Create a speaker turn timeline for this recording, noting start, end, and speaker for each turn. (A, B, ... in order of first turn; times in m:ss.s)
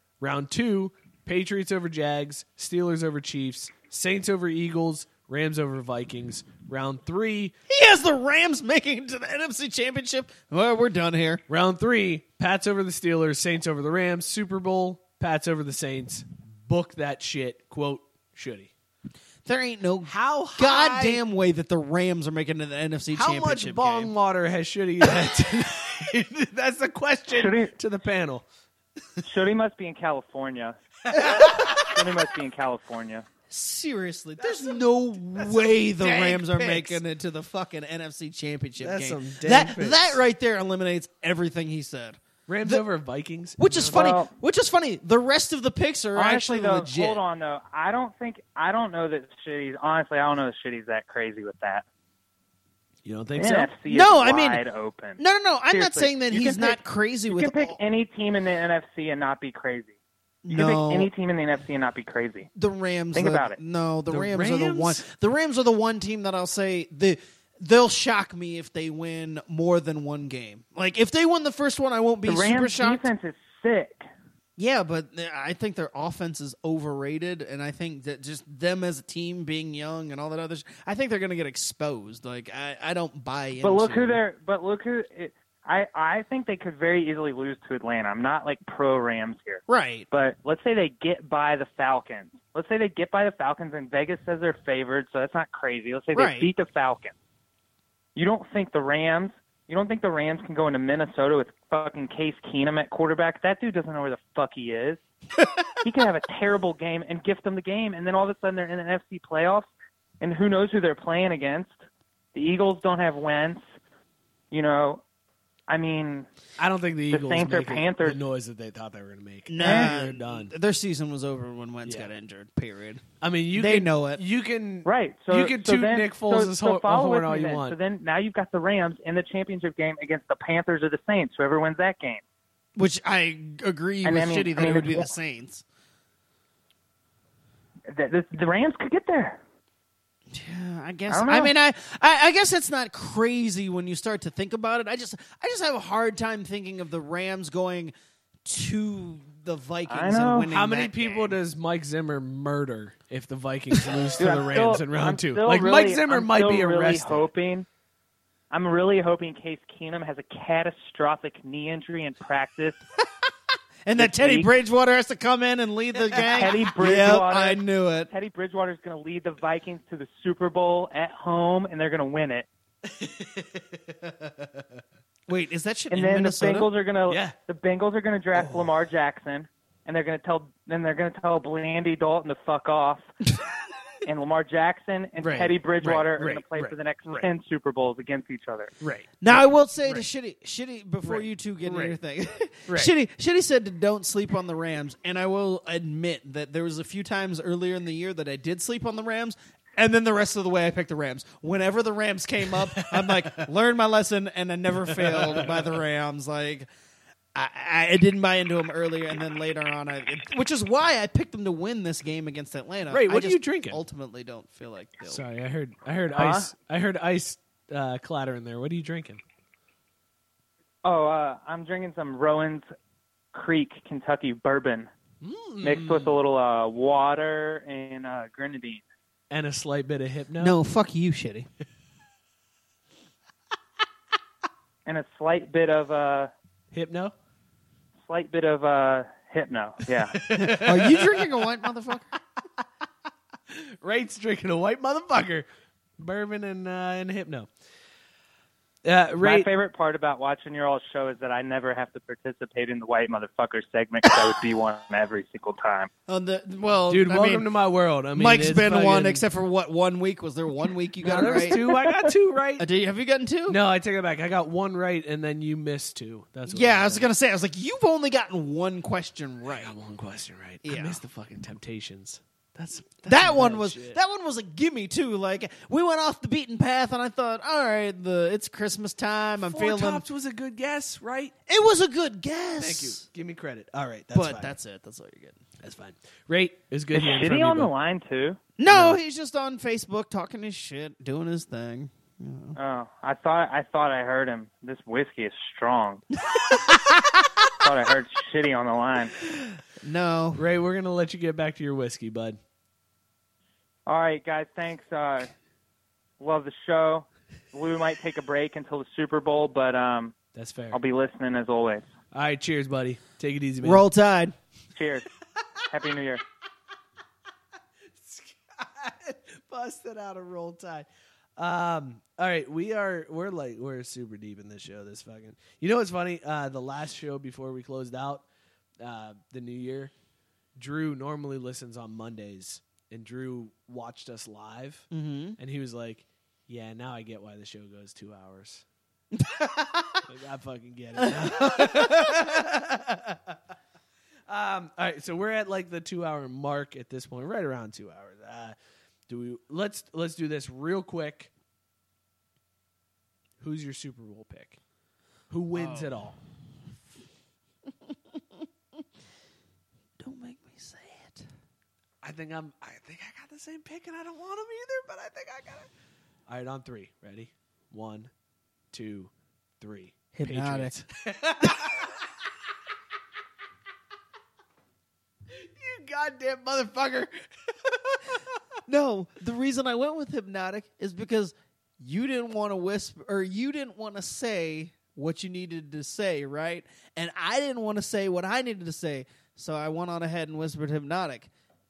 0:00.2-0:07.6 A
0:07.7-0:11.4 B
0:11.5-0:18.7 A
0:19.4-0:24.1 B
0:20.1-0:21.2 A
0:23.1-0:28.5 A
0:27.3-0:27.8 C
0:29.2-0:30.8 C
0:31.1-0:32.0 A
0:31.4-0:31.9 B
0:31.9-0:33.3 C
0:33.5-0:42.9 B
0:34.4-0:34.8 A
0:35.4-0:37.0 A
0:38.8-0:40.2 A
0:42.5-0:44.1 A
0:43.6-0:47.2 B
0:43.9-0:44.3 C
0:46.1-0:51.8 C
0:53.0-0:53.7 A
0:53.4-1:00.0 C
0:53.9-0:54.6 B
0:55.2-0:57.8 B
1:00.4-1:01.1 B
1:00.5-1:02.5 C
1:02.6-1:13.1 B
1:03.1-1:03.6 C
1:04.1-1:05.0 A
1:12.2-1:14.1 C
1:14.6-1:24.2 B
1:23.6-1:37.1 C
1:29.7-1:30.1 B
1:36.1-1:36.5 B
1:38.2-1:45.0 C
1:45.8-1:51.8 C
1:52.3-1:53.6 C
1:54.5-1:55.0 C
1:55.7-1:56.3 C
1:56.6-2:00.5 A
1:57.1-1:58.2 C
1:59.5-2:04.2 B
1:59.6-1:59.9 C
2:01.8-2:02.1 A
2:03.2-2:07.8 A
2:04.8-2:12.2 C
2:12.8-2:15.6 B
2:14.0-2:15.1 C
2:17.9-2:19.4 C
2:20.3-2:27.9 B
2:21.1-2:21.5 C
2:28.4-2:31.4 B
2:29.9-2:30.5 C
2:30.5-2:37.3 A
2:34.2-2:37.7 C
2:38.5-2:42.8 C
2:43.9-2:48.1 B
2:44.0-2:44.5 C
2:46.0-2:46.6 A
2:46.4-2:52.5 C
2:52.8-2:54.6 A
2:55.3-2:56.7 B
2:55.9-3:03.1 C
2:57.1-2:57.4 A
2:58.4-2:58.6 A
3:04.1-3:08.7 C
3:05.2-3:07.3 A
3:08.8-3:10.0 A
3:09.2-3:26.7 B
3:11.0-3:12.0 A
3:22.8-3:23.4 A
3:24.9-3:25.7 A
3:27.4-3:35.2 B
3:32.9-3:33.8 A
3:35.0-3:39.2 A
3:36.1-3:36.5 C
3:40.8-3:42.7 C
3:43.3-3:44.9 C
3:45.2-3:46.2 A
3:45.6-3:48.8 C
3:49.3-3:50.6 A
3:50.4-3:51.5 B
3:54.9-3:56.3 C
3:56.7-3:57.1 A
3:58.0-4:00.2 C
4:00.1-4:01.3 A
4:00.4-4:02.1 B
4:03.5-4:05.5 A
4:06.0-4:07.5 A
4:08.8-4:09.5 A
4:09.2-4:15.9 C
4:16.1-4:17.5 B
4:16.9-4:19.2 A
4:18.1-4:21.6 B
4:21.0-4:22.7 A
4:21.2-4:22.1 C
4:22.6-4:23.6 B
4:23.5-4:27.1 A
4:26.5-4:29.7 B
4:29.5-4:34.0 A
4:30.6-4:31.0 B
4:33.1-4:40.0 B
4:39.4-4:41.3 A
4:41.5-4:43.0 B
4:42.6-4:44.5 A
4:44.1-4:45.4 B
4:45.6-4:47.7 A
4:46.9-4:48.4 C
4:48.6-4:52.6 B
4:48.7-4:49.0 A
4:52.6-4:56.0 C
4:56.4-4:56.8 B
4:57.6-4:59.1 C
4:59.8-5:00.4 B
5:00.4-5:02.4 A
5:03.9-5:05.3 C
5:06.2-5:10.2 C
5:10.3-5:10.8 A
5:10.7-5:11.9 C
5:12.1-5:13.8 A
5:13.6-5:14.3 B
5:14.8-5:15.1 C
5:15.7-5:16.2 C
5:17.9-5:28.2 A
5:28.8-5:29.9 A
5:30.6-5:34.9 A
5:34.9-5:35.4 B
5:35.4-5:38.6 A
5:39.1-5:40.0 B
5:40.1-5:42.9 A
5:41.0-5:42.4 B
5:44.3-5:48.6 A
5:49.1-5:51.3 A
5:53.4-5:54.6 A
5:55.3-5:56.2 A
5:55.5-5:56.0 B
5:57.9-5:58.5 B
6:00.0-6:01.3 B
6:02.0-6:05.7 A
6:06.3-6:08.1 A
6:08.7-6:11.7 A
6:10.2-6:10.8 B
6:15.4-6:17.1 A
6:17.6-6:18.0 A
6:18.7-6:31.3 B